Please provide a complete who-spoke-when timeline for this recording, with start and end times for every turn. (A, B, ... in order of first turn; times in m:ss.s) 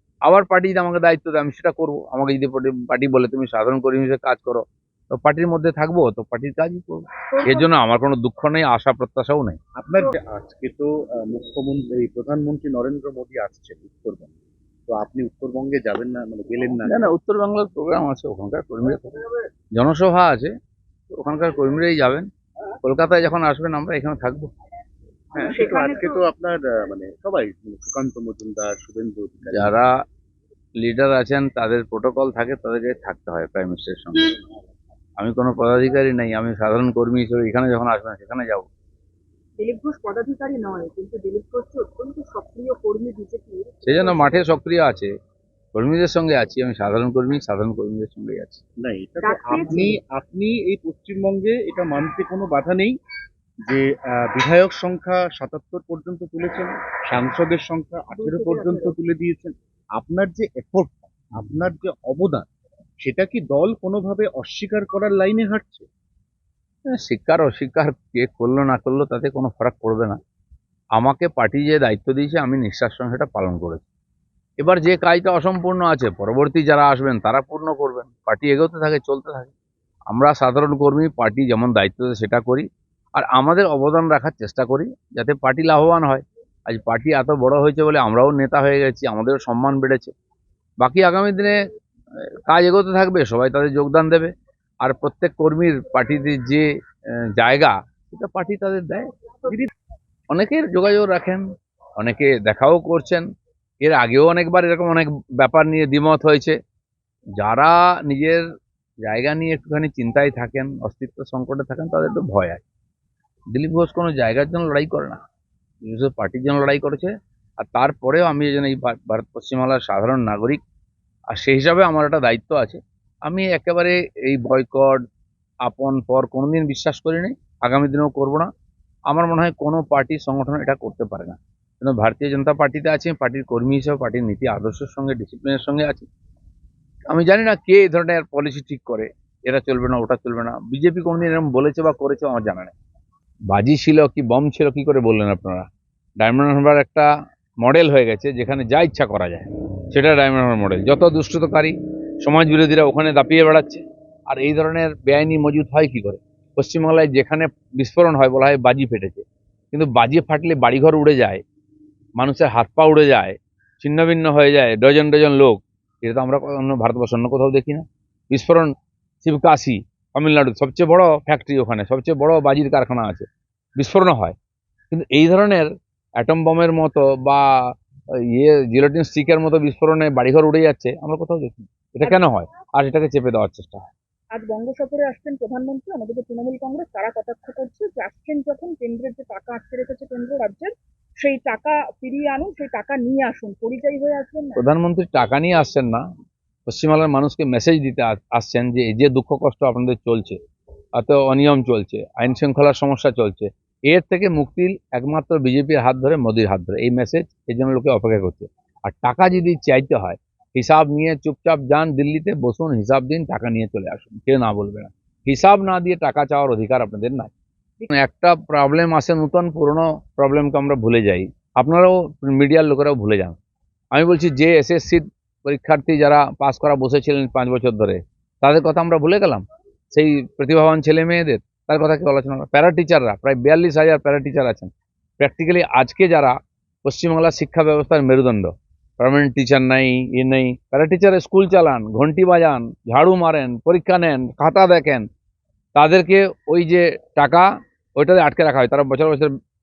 0:00.3-0:09.6 A
0:07.3-0:07.7 B
0:09.8-0:14.3 C
0:14.9-0:17.1 C
0:16.9-0:19.1 A
0:19.8-0:20.5 A
0:21.1-0:22.3 A
0:22.8-0:24.5 A
0:25.3-0:29.8 C
0:25.4-0:26.2 B
0:29.5-0:29.9 A
0:30.8-0:34.3 A
0:35.2-0:38.7 A
0:39.6-0:44.4 B
0:43.8-0:45.1 A
0:45.7-0:48.6 A
0:48.8-0:53.0 C
0:49.2-0:50.0 B
0:53.7-1:02.5 C
0:58.1-0:59.0 B
1:03.0-1:05.9 C
1:06.9-1:10.2 A
1:11.0-1:13.8 A
1:14.6-1:19.5 A
1:20.1-1:22.7 A
1:23.2-1:30.1 A
1:30.8-1:31.6 A
1:32.5-1:34.3 A
1:34.8-1:36.6 A
1:37.4-1:39.1 A
1:40.3-1:41.4 A
1:42.0-1:43.3 A
1:43.8-1:46.6 A
1:47.4-1:48.4 A
1:49.0-1:52.6 A
1:53.5-1:55.2 A
1:55.8-1:57.1 A
1:57.6-2:00.6 A
2:01.3-2:05.0 A
2:05.6-2:08.5 A
2:09.1-2:16.1 A
2:17.1-2:22.8 A
2:23.5-2:25.7 A
2:26.2-2:27.1 A
2:27.6-2:41.4 A
2:42.2-2:48.7 A
2:49.2-2:53.3 A
2:53.8-2:54.4 A
2:54.9-2:55.7 A
2:56.2-2:57.4 A
2:58.3-3:03.9 A
3:04.4-3:14.6 B
3:14.6-3:16.0 A
3:16.7-3:20.4 A
3:21.0-3:37.3 A
3:37.9-3:43.4 A
3:43.9-4:05.1 A
4:05.8-4:09.3 A